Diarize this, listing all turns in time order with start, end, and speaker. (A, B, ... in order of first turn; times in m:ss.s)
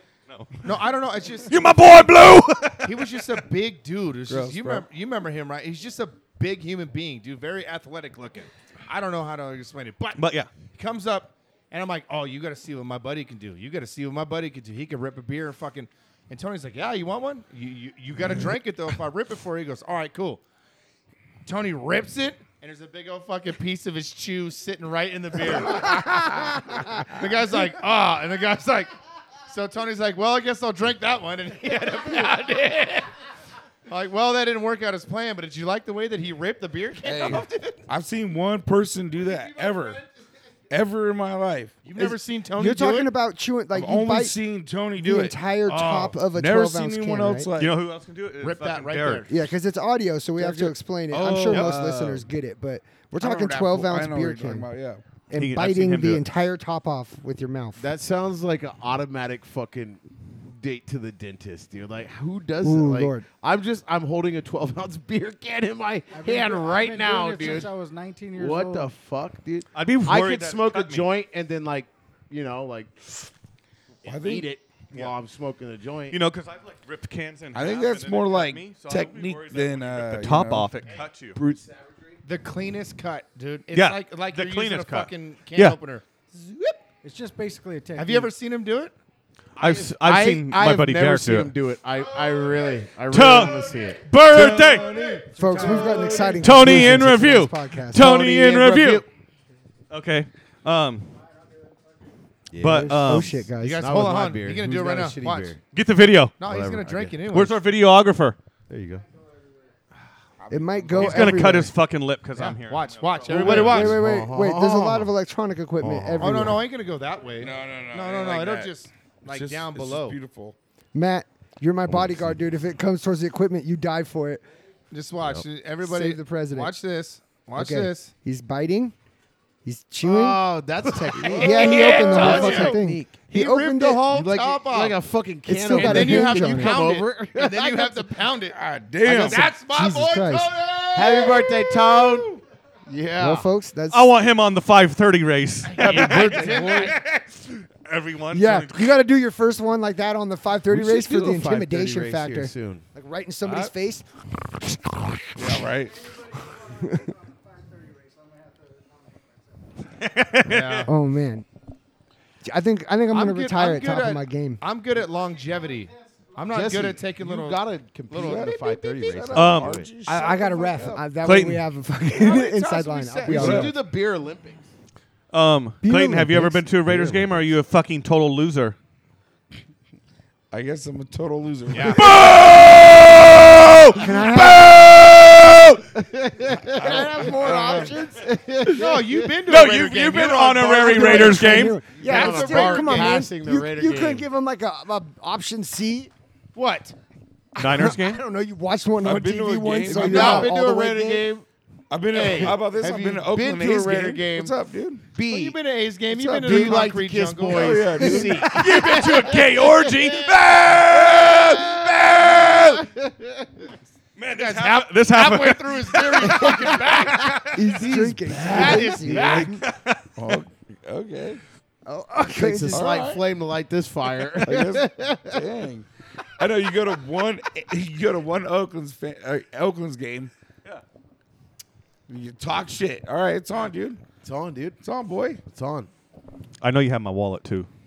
0:00.3-0:00.7 A
0:00.6-0:02.0 B
0:01.5-0:03.4 A
0:02.8-0:20.4 B
0:04.3-0:04.8 C
0:10.2-0:10.5 A
0:21.4-0:28.9 B
0:25.8-0:26.8 D
0:29.5-0:33.1 B
0:33.9-0:37.8 B
0:37.0-0:40.0 C
0:40.7-0:41.8 C
0:41.8-0:43.1 B
0:42.0-0:44.4 D
0:43.7-0:45.4 C
0:44.9-0:47.5 D
0:45.7-0:46.2 B
0:46.2-0:47.7 C
0:47.6-0:49.3 A
0:48.4-0:49.4 B
0:49.3-0:54.7 D
0:50.4-0:52.2 C
0:51.5-0:51.7 A
0:53.2-0:55.0 C
0:55.3-0:57.8 D
0:55.3-0:56.3 A
0:57.8-1:07.7 E
1:02.6-1:03.3 D
1:06.1-1:08.9 F
1:08.4-1:13.2 E
1:09.7-1:11.1 A
1:14.0-1:14.5 C
1:14.0-1:16.2 E
1:16.1-1:21.4 A
1:17.5-1:20.8 C
1:21.4-1:22.0 E
1:22.2-1:26.8 B
1:23.7-1:25.8 A
1:27.0-1:28.3 F
1:28.0-1:28.9 B
1:29.6-1:31.5 A
1:29.6-1:34.0 E
1:33.1-1:35.0 A
1:34.3-1:36.9 C
1:35.4-1:38.2 D
1:35.5-1:36.3 F
1:36.3-1:39.0 A
1:38.0-1:39.1 E
1:39.9-1:41.1 A
1:42.5-1:45.6 E
1:42.6-1:43.4 A
1:42.6-1:44.0 D
1:43.6-1:45.6 B
1:45.7-1:46.3 A
1:46.4-1:47.6 B
1:46.4-1:47.2 E
1:47.3-1:48.4 A
1:48.7-1:49.0 E
1:50.4-1:51.6 C
1:50.5-1:51.7 D
1:51.0-1:52.9 A
1:52.4-1:54.0 B
1:53.2-1:55.1 E
1:53.3-1:56.6 D
1:55.8-1:56.6 E
1:56.2-2:00.2 B
1:57.4-1:58.7 C
1:59.3-2:00.6 C
2:00.9-2:04.4 D
2:04.9-2:08.1 B
2:05.8-2:06.7 D
2:07.6-2:09.0 D
2:09.6-2:10.4 D
2:10.0-2:13.1 E
2:11.2-2:15.0 B
2:11.3-2:14.1 D
2:14.1-2:18.1 E
2:15.5-2:16.9 D
2:15.7-2:22.3 B
2:18.5-2:19.5 C
2:19.6-2:20.5 D
2:20.9-2:23.5 E
2:23.2-2:24.1 D
2:23.9-2:27.0 A
2:25.7-2:27.0 B
2:25.8-2:26.9 E
2:27.8-2:29.0 A
2:28.3-2:35.7 D
2:30.7-2:32.8 E
2:35.4-2:36.2 C
2:36.6-2:37.1 D
2:40.0-2:40.9 A
2:40.4-2:40.9 B
2:40.9-2:41.5 D
2:42.4-2:44.6 D
2:43.1-2:48.6 B
2:46.5-2:49.9 E
2:48.2-2:51.1 C
2:49.3-2:49.8 A
2:50.1-2:53.7 D
2:51.2-2:51.6 A
2:52.1-2:53.7 B
2:53.2-2:54.7 E
2:53.3-2:53.7 C
2:55.3-2:58.8 A
2:55.8-2:56.6 D
2:56.9-2:57.2 E
3:00.5-3:02.6 C
3:01.7-3:02.2 B
3:02.0-3:05.6 A
3:04.0-3:05.0 D
3:04.8-3:09.4 E
3:06.7-3:08.2 D
3:06.8-3:07.9 C
3:08.7-3:13.3 B
3:09.5-3:11.8 A
3:10.8-3:16.1 D
3:11.9-3:14.3 E
3:16.6-3:17.0 B
3:17.6-3:21.3 D
3:17.6-3:18.2 A
3:19.0-3:20.5 C
3:19.8-3:21.5 E
3:19.9-3:20.5 B
3:21.9-3:25.0 C
3:22.1-3:24.6 E
3:22.1-3:22.5 B
3:25.1-3:25.6 E
3:25.3-3:28.3 B
3:26.1-3:26.9 C
3:26.4-3:30.2 E
3:27.4-3:29.0 C
3:28.0-3:28.4 D
3:28.5-3:31.2 A
3:30.4-3:32.8 C
3:30.9-3:33.5 E
3:34.3-3:36.8 A
3:34.3-3:39.6 B
3:37.5-3:39.6 D
3:38.0-3:39.6 E
3:38.2-3:39.4 C
3:39.4-3:40.0 A
3:40.2-3:41.4 C
3:41.9-3:43.0 D
3:42.3-3:45.4 E
3:42.7-3:43.2 C
3:44.4-3:45.9 C
3:46.4-3:50.3 C
3:52.1-3:54.0 C
3:54.2-3:54.8 E
3:54.8-3:55.4 C
3:55.4-3:55.9 E
3:56.6-3:57.7 A